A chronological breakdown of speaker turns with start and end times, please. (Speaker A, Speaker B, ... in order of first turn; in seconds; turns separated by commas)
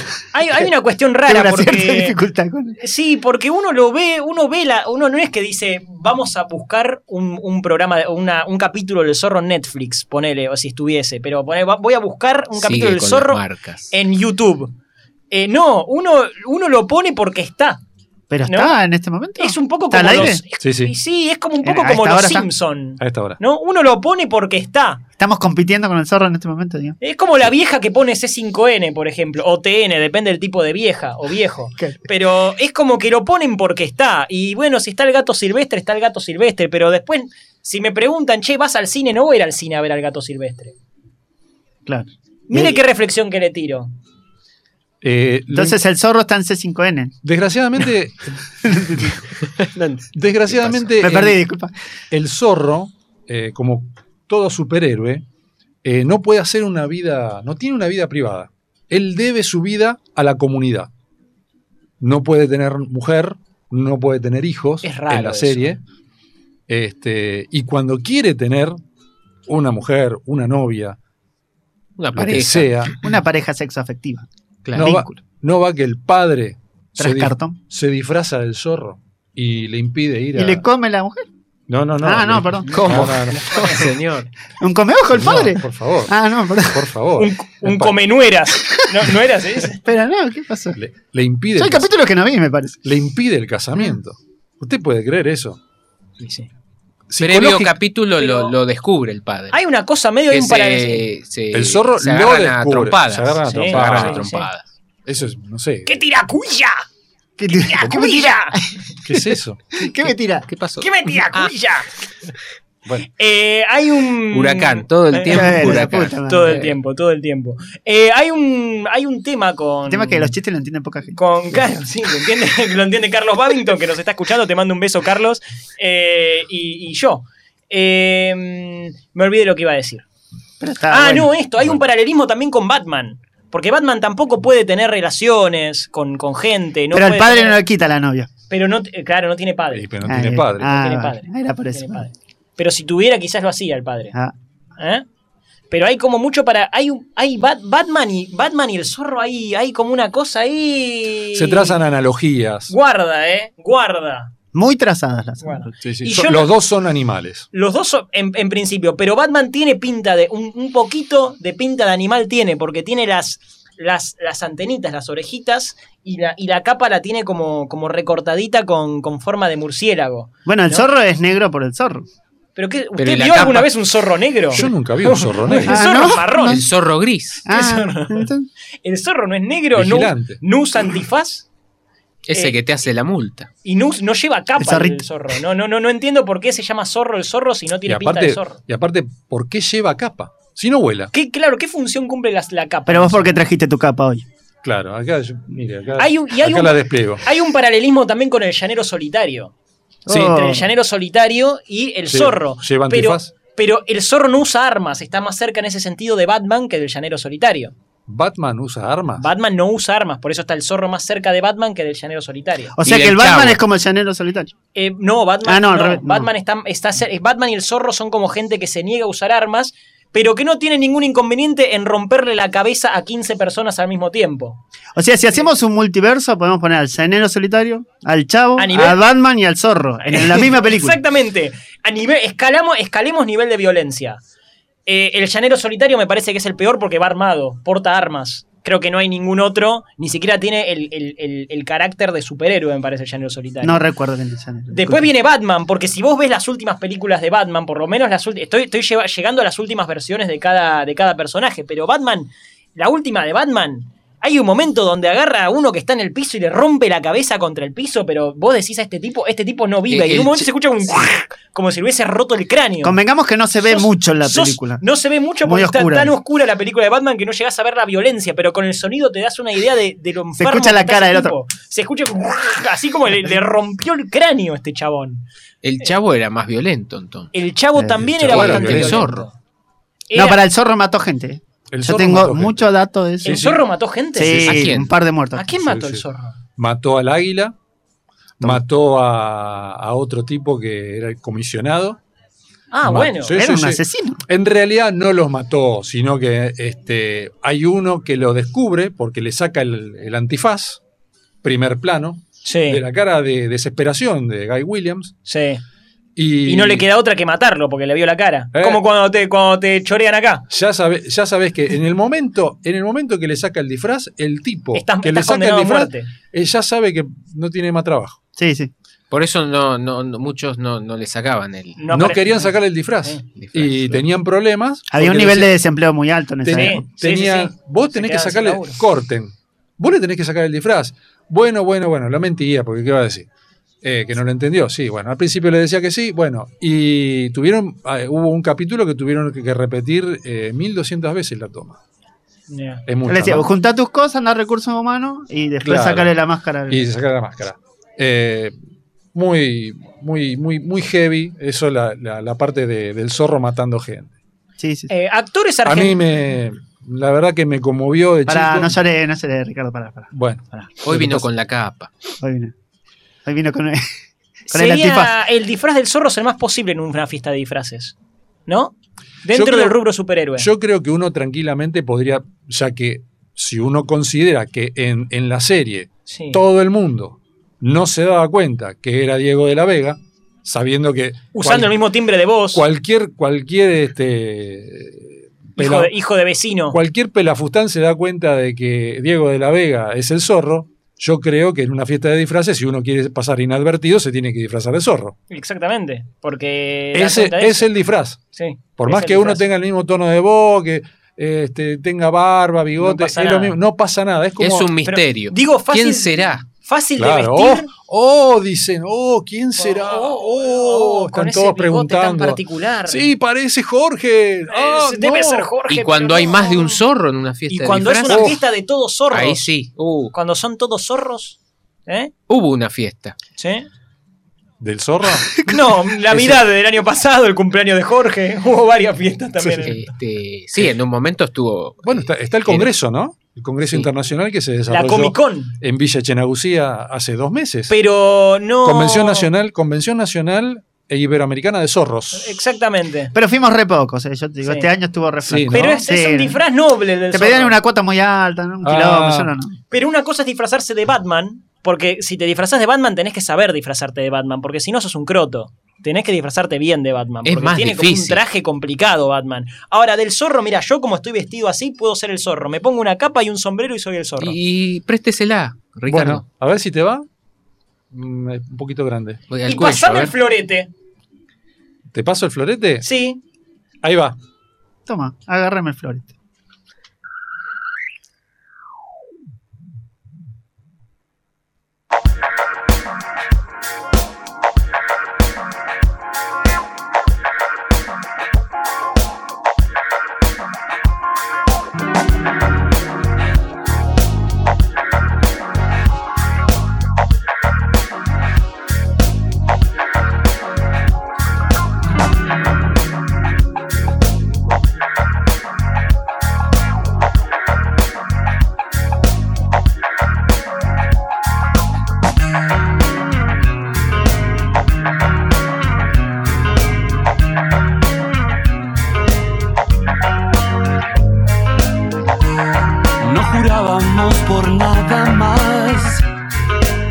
Speaker A: 0.3-2.2, Speaker B: 1.3-2.8, Speaker A: 2.8-14.7, Speaker C: 12.6-13.9, Speaker A: 15.3-17.8, Speaker B: 18.3-20.4, Speaker A: 18.4-18.8, Speaker A: 19.4-25.0, Speaker D: 20.6-20.9, Speaker B: 21.6-22.5, Speaker D: 23.0-23.4, Speaker B: 25.2-26.9, Speaker A: 27.0-40.7, Speaker B: 41.9-42.7, Speaker A: 42.5-43.9, Speaker D: 45.0-45.8, Speaker B: 45.5-47.1, Speaker D: 47.2-48.4, Speaker B: 48.6-49.1, Speaker C: 49.6-51.1, Speaker D: 50.1-51.4, Speaker B: 51.0-51.7, Speaker D: 52.1-55.2, Speaker D: 55.8-60.9, Speaker D: 62.0-65.8, Speaker A: 64.8-65.7, Speaker D: 66.7-68.8, Speaker D: 69.5-71.0, Speaker C: 72.0-72.9, Speaker D: 72.1-73.0, Speaker B: 72.2-75.2, Speaker D: 74.8-80.6, Speaker B: 77.0-77.6, Speaker B: 80.3-81.2, Speaker D: 81.7-83.8, Speaker B: 82.0-83.0, Speaker C: 82.7-84.3, Speaker B: 84.6-86.9, Speaker D: 85.1-88.0, Speaker A: 87.2-89.8, Speaker B: 89.8-90.8, Speaker D: 90.7-91.9, Speaker B: 91.5-92.8, Speaker D: 92.8-95.6, Speaker A: 96.2-96.5, Speaker D: 97.1-97.7, Speaker C: 97.2-99.6, Speaker A: 98.2-98.5, Speaker A: 99.5-101.0, Speaker C: 100.3-104.6, Speaker D: 101.5-104.3, Speaker A: 103.5-104.5, Speaker D: 105.0-106.0, Speaker A: 105.8-106.8, Speaker B: 107.4-110.5, Speaker A: 107.5-108.6, Speaker D: 109.0-109.6, Speaker C: 110.5-111.5, Speaker A: 110.8-111.9, Speaker A: 113.2-120.3, Speaker C: 114.3-116.8, Speaker B: 115.3-116.6, Speaker B: 119.9-121.2, Speaker A: 121.2-130.0, Speaker B: 130.6-131.3, Speaker A: 130.9-137.6, Speaker B: 136.9-138.3, Speaker A: 138.5-139.9, Speaker D: 139.7-140.8, Speaker B: 140.0-142.1, Speaker A: 140.6-144.1, Speaker A: 144.8-145.0, Speaker A: 145.7-151.8, Speaker D: 151.3-152.7, Speaker A: 152.7-154.3, Speaker B: 154.5-155.7, Speaker A: 155.4-156.5, Speaker D: 155.8-157.5, Speaker A: 157.5-170.8, Speaker B: 170.4-172.1, Speaker A: 172.6-176.6, Speaker C: 173.0-173.7, Speaker D: 174.5-175.9, Speaker B: 175.6-176.7, Speaker C: 176.4-177.4, Speaker B: 177.4-178.5, Speaker A: 177.5-178.3, Speaker A: 178.8-181.4, Speaker D: 179.7-180.4, Speaker C: 182.3-183.5, Speaker A: 183.6-188.6, Speaker B: 184.6-185.0, Speaker D: 187.8-191.1, Speaker A: 191.1-193.4, Speaker B: 192.9-194.2, Speaker D: 194.6-197.2, Speaker A: 196.0-199.5, Speaker B: 200.1-200.7, Speaker A: 200.1-207.7, Speaker D: 202.1-203.3, Speaker D: 208.1-209.2, Speaker A: 209.2-212.7, Speaker B: 212.8-214.5, Speaker C: 212.8-213.6, Speaker A: 214.7-224.6, Speaker B: 215.4-216.3, Speaker B: 224.9-231.0, Speaker A: 228.6-229.0, Speaker A: 230.0-234.2, Speaker A: 234.8-243.8, Speaker B: 243.6-245.1, Speaker A: 244.7-263.0, Speaker C: 259.9-260.5, Speaker B: 262.8-264.8, Speaker A: 263.6-275.2, Speaker B: 265.4-266.1, Speaker B: 270.4-271.3, Speaker C: 275.6-277.3, Speaker A: 277.3-279.3, Speaker B: 277.8-278.1, Speaker D: 278.1-279.0, Speaker C: 278.2-279.3, Speaker A: 280.1-280.4, Speaker B: 280.1-283.5, Speaker D: 281.7-282.7, Speaker A: 283.2-284.7, Speaker D: 283.2-283.6, Speaker B: 284.1-285.5, Speaker C: 284.2-284.9, Speaker A: 285.3-286.4, Speaker D: 285.6-286.0, Speaker D: 286.6-287.6, Speaker D: 288.4-292.0, Speaker A: 292.7-293.4, Speaker D: 292.8-300.8, Speaker B: 293.4-294.2, Speaker D: 301.4-305.1, Speaker A: 302.4-302.8, Speaker A: 305.2-305.6, Speaker D: 306.1-306.9, Speaker A: 306.4-310.4, Speaker D: 308.5-308.8, Speaker D: 310.5-318.2, Speaker A: 314.7-316.1, Speaker B: 318.4-318.7, Speaker C: 319.1-321.8, Speaker A: 321.8-323.2, Speaker D: 321.9-325.5, Speaker C: 323.3-324.0, Speaker B: 324.9-326.9, Speaker D: 326.4-333.3, Speaker A: 326.5-328.8, Speaker D: 333.8-341.8, Speaker A: 342.5-342.8, Speaker D: 342.9-343.5, Speaker B: 343.1-346.9, Speaker D: 345.6-346.1, Speaker D: 346.7-348.5, Speaker D: 349.1-354.1, Speaker B: 354.6-354.9, Speaker A: 354.9-356.0, Speaker D: 355.6-358.8, Speaker B: 358.3-360.7, Speaker D: 360.1-361.3, Speaker C: 360.8-361.9, Speaker B: 362.2-362.5, Speaker B: 363.2-363.8, Speaker A: 364.5-367.9, Speaker B: 364.5-365.1, Speaker A: 368.5-368.7, Speaker A: 369.2-370.5, Speaker D: 369.3-369.8, Speaker D: 370.4-381.8, Speaker A: 376.1-376.4, Speaker A: 381.3-382.6, Speaker D: 382.5-385.9, Speaker A: 385.6-386.8, Speaker D: 386.7-395.1, Speaker A: 395.3-397.7, Speaker D: 396.9-398.2, Speaker A: 398.3-399.4, Speaker D: 398.8-404.7, Speaker A: 402.8-403.6, Speaker C: 404.4-406.4, Speaker A: 404.8-407.7, Speaker D: 407.0-415.5, Speaker A: 409.6-413.1, Speaker A: 414.5-416.8, Speaker C: 415.7-418.4, Speaker A: 417.5-419.5, Speaker D: 418.1-418.4, Speaker C: 419.1-420.1, Speaker A: 420.1-422.1, Speaker C: 422.3-423.1, Speaker A: 423.4-423.7, Speaker D: 424.6-425.3, Speaker A: 425.5-429.8, Speaker D: 429.4-429.7, Speaker C: 429.6-432.7, Speaker D: 431.8-437.7, Speaker C: 433.6-433.9, Speaker A: 434.7-435.5, Speaker A: 437.7-439.3, Speaker D: 438.6-442.4, Speaker A: 442.1-443.1, Speaker B: 443.1-446.4, Speaker A: 444.4-444.7, Speaker D: 445.2-445.8, Speaker A: 445.5-447.6, Speaker B: 447.1-449.6, Speaker D: 448.6-449.3, Speaker A: 449.7-464.4, Speaker C: 457.2-458.2, Speaker C: 464.2-466.2, Speaker D: 465.9-467.1, Speaker D: 467.9-469.2, Speaker C: 469.3-470.1, Speaker A: 469.4-470.7, Speaker D: 471.9-472.9, Speaker A: 472.8-473.2, Speaker D: 473.8-474.2, Speaker B: 474.9-476.1, Speaker E: 523.0-526.0